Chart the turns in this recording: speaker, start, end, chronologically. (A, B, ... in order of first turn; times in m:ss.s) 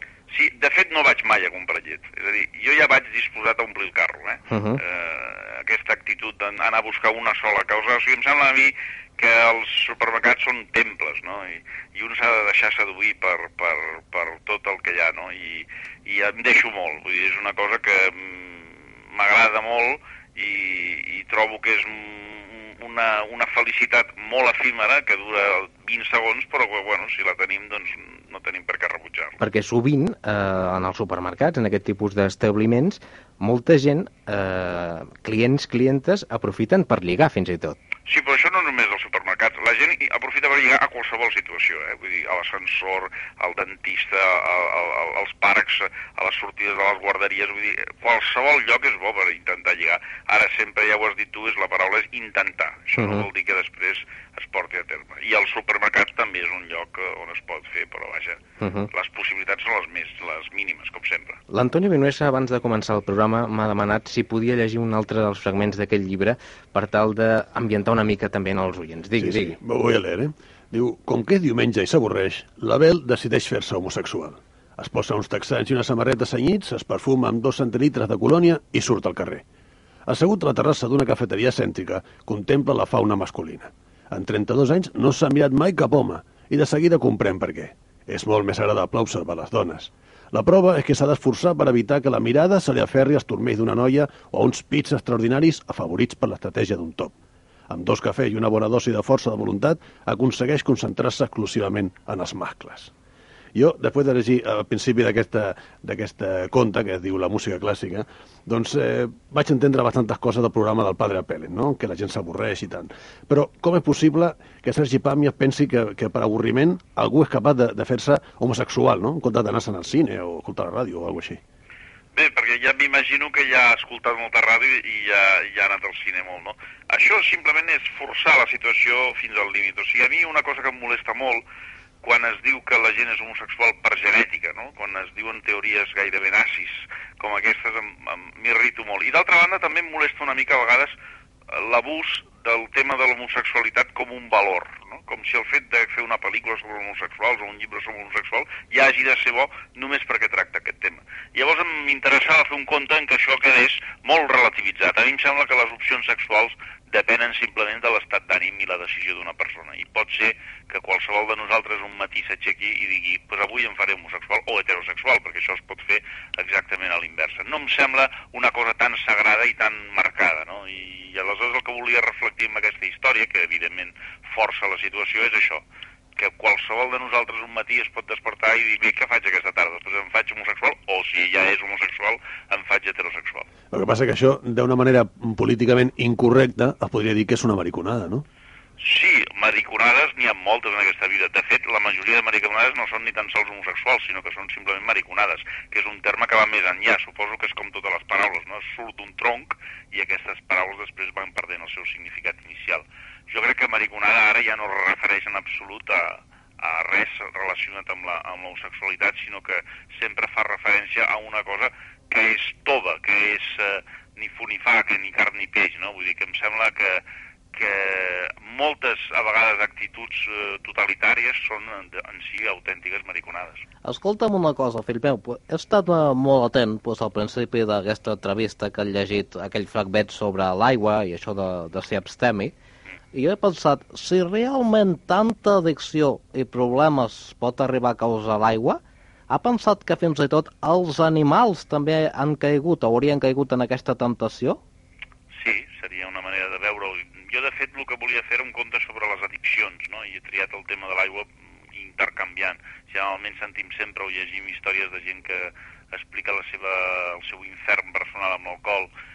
0:00.3-0:29.4 A
0:04.5-0:04.8 B
0:29.4-0:37.8 B
0:38.1-0:58.4 A
0:53.0-0:53.3 B
0:58.6-0:58.9 B
0:58.9-1:01.4 A
1:01.5-1:09.6 B
1:09.2-1:19.4 C
1:20.1-1:37.1 C
1:37.7-1:42.9 C
1:43.6-2:01.4 C
2:02.1-2:11.4 A
2:12.0-2:21.0 A
2:21.5-2:55.6 A
2:56.2-3:03.5 A
3:03.7-3:08.2 C
3:08.8-3:43.6 A
3:43.8-3:52.5 D
3:53.1-4:04.6 D
4:05.3-4:18.9 A